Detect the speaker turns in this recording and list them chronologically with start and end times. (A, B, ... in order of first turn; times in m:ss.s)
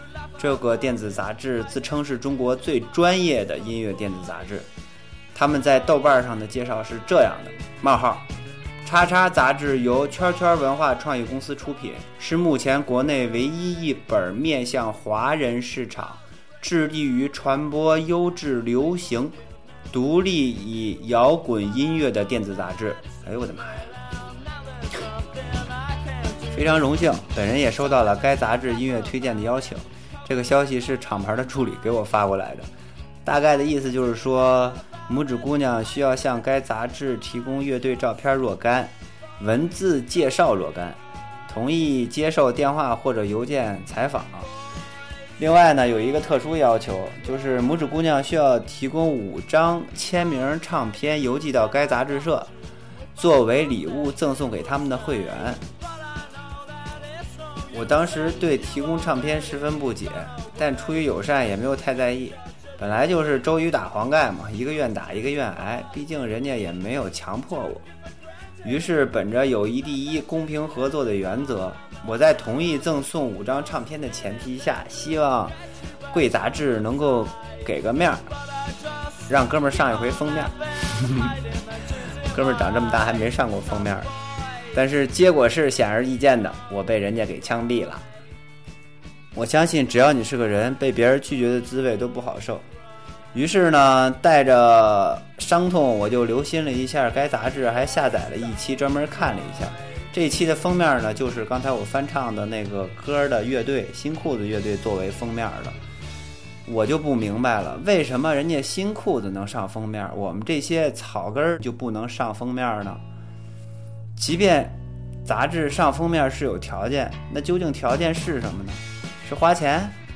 0:00.4-0:04.7 A
0:05.3-0:08.2 A
0:08.8-0:19.3 A
0:19.9-0:23.9 A
0:26.5-0:32.7 A
0:33.2-0:44.5 A
0:45.4-0:52.5 A
0:53.2-0:55.6 A
0:57.7-1:07.8 A
1:08.6-1:15.6 A
1:16.1-1:18.3 A
1:19.3-1:20.5 A
1:22.3-1:24.1 A
1:24.7-1:28.0 A
1:29.3-1:32.6 A
1:33.3-1:45.8 A
1:46.6-1:53.0 A
1:54.2-2:00.0 A